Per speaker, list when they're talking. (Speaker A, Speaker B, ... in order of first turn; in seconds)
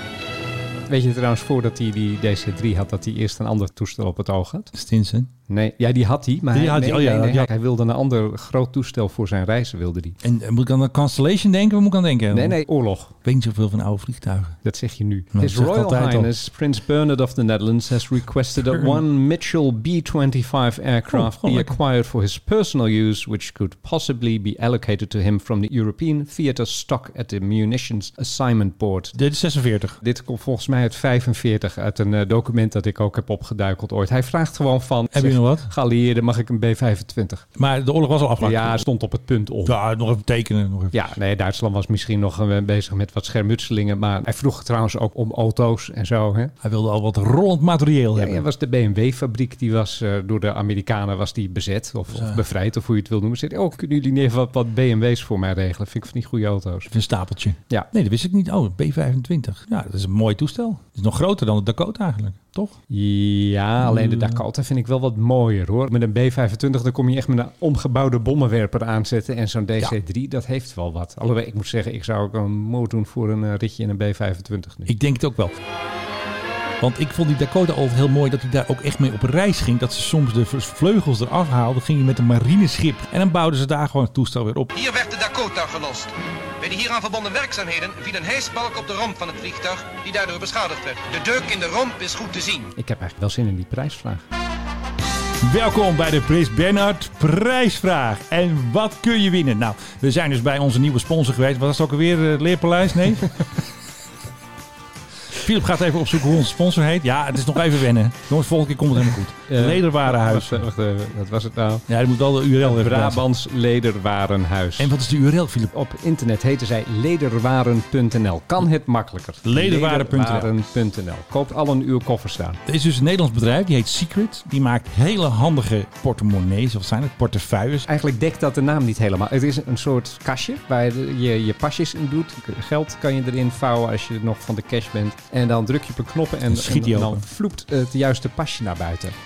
Speaker A: 0.9-4.7, 5.5-10.2, 12.3-13.1, 14.6-29.1, 30.0-37.4, 38.4-39.8, 40.9-46.5, 48.1-56.9, 62.9-74.9, 92.8-94.2, 109.5-111.9, 112.6-114.9, 115.7-122.6, 127.9-139.1
Speaker B: 4.7-5.3, 6.5-7.5, 10.2-12.6, 13.2-14.6, 15.3-16.3, 21.1-21.8, 29.1-30.0, 35.1-35.7, 37.6-38.8, 39.6-41.1, 46.6-48.4, 52.1-52.4, 56.9-62.7, 63.9-64.4, 74.9-75.6, 76.8-84.7, 95.4-103.5, 105.3-110.6, 111.9-113.2, 114.8-115.7, 119.4-120.5, 122.7-127.9, 136.5-137.2
Speaker C: 84.7-92.7